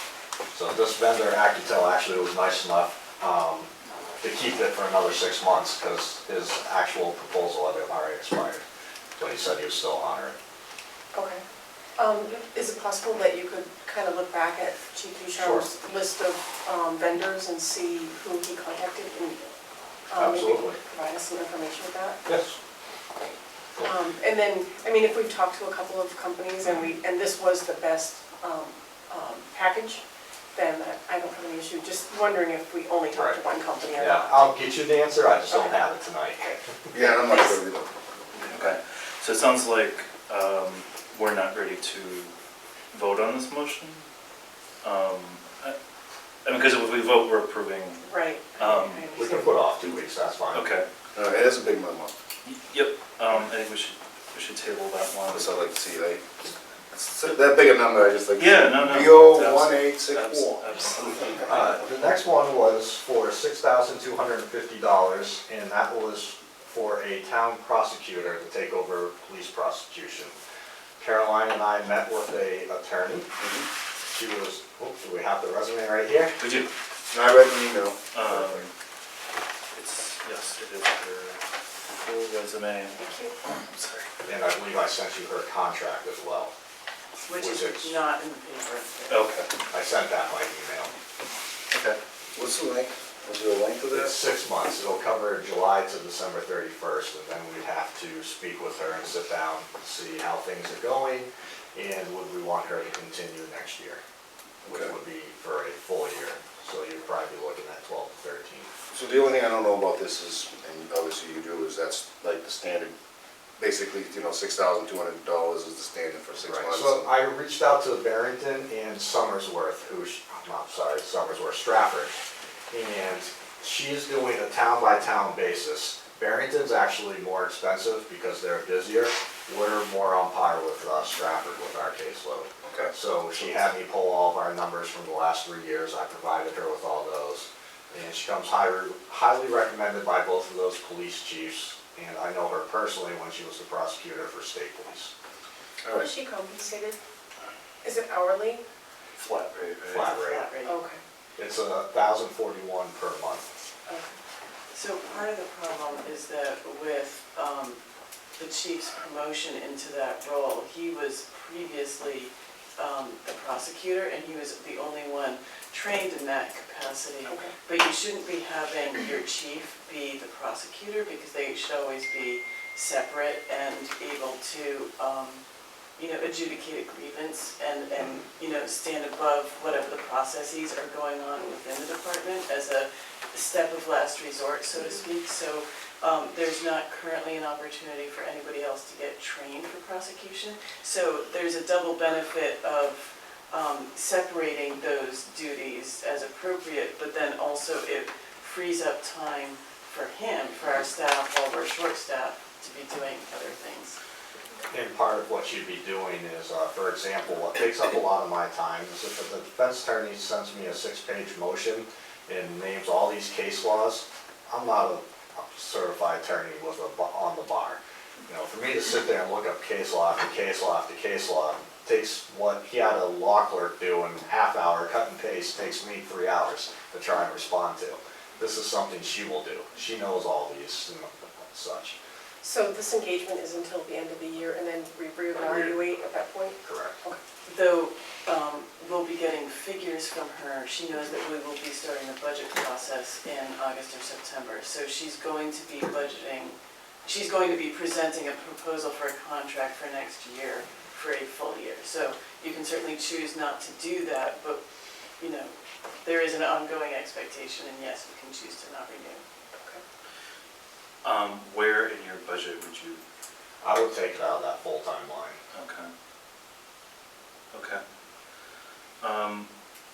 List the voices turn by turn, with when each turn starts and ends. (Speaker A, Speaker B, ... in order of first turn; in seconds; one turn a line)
Speaker A: 0.5-3.7
Speaker A: 4.2-8.6
Speaker A: 9.2-10.3
Speaker B: 11.1-11.4
Speaker B: 12.0-19.4
Speaker A: 15.3-15.6
Speaker B: 20.1-22.2
Speaker A: 20.2-20.8
Speaker A: 22.2-22.5
Speaker B: 23.8-30.0
Speaker B: 30.5-34.5
Speaker A: 33.1-33.4
Speaker A: 33.9-36.7
Speaker B: 35.5-35.8
Speaker C: 36.9-37.9
Speaker B: 36.9-37.5
Speaker D: 38.4-42.3
Speaker D: 42.9-44.0
Speaker D: 44.8-45.8
Speaker D: 46.4-49.0
Speaker B: 48.0-49.6
Speaker A: 49.1-50.7
Speaker D: 50.5-50.9
Speaker C: 51.1-52.1
Speaker D: 52.4-55.5
Speaker C: 55.3-56.2
Speaker C: 56.9-60.5
Speaker D: 58.3-61.8
Speaker A: 61.4-70.3
Speaker A: 71.0-73.3
Speaker C: 73.4-73.7
Speaker A: 74.1-76.4
Speaker D: 76.4-76.7
Speaker C: 77.1-78.6
Speaker D: 78.1-78.7
Speaker D: 79.7-81.4
Speaker D: 81.9-84.1
Speaker B: 83.0-83.3
Speaker A: 84.2-86.5
Speaker E: 87.2-89.3
Speaker A: 87.4-88.0
Speaker D: 89.1-89.5
Speaker A: 89.7-90.9
Speaker C: 92.3-94.1
Speaker A: 93.9-104.0
Speaker A: 104.6-108.7
Speaker C: 108.9-112.9
Speaker C: 113.6-117.1
Speaker A: 116.5-122.2
Speaker A: 122.7-145.1
Speaker C: 132.7-132.9
Speaker B: 145.9-147.0
Speaker B: 147.8-148.6
Speaker D: 149.2-150.1
Speaker E: 149.9-150.8
Speaker A: 149.9-150.4
Speaker B: 150.6-151.0
Speaker A: 151.4-153.5
Speaker B: 153.9-154.1
Speaker E: 154.7-157.8
Speaker E: 158.3-175.4
Speaker B: 167.3-167.5
Speaker E: 176.0-204.0
Speaker A: 204.7-231.9
Speaker B: 232.4-237.2
Speaker A: 235.4-235.8
Speaker A: 236.6-237.0
Speaker E: 237.4-254.6
Speaker E: 255.2-259.2
Speaker D: 261.0-263.0
Speaker A: 263.6-265.4
Speaker D: 265.5-265.9
Speaker D: 267.5-267.8
Speaker D: 269.0-269.5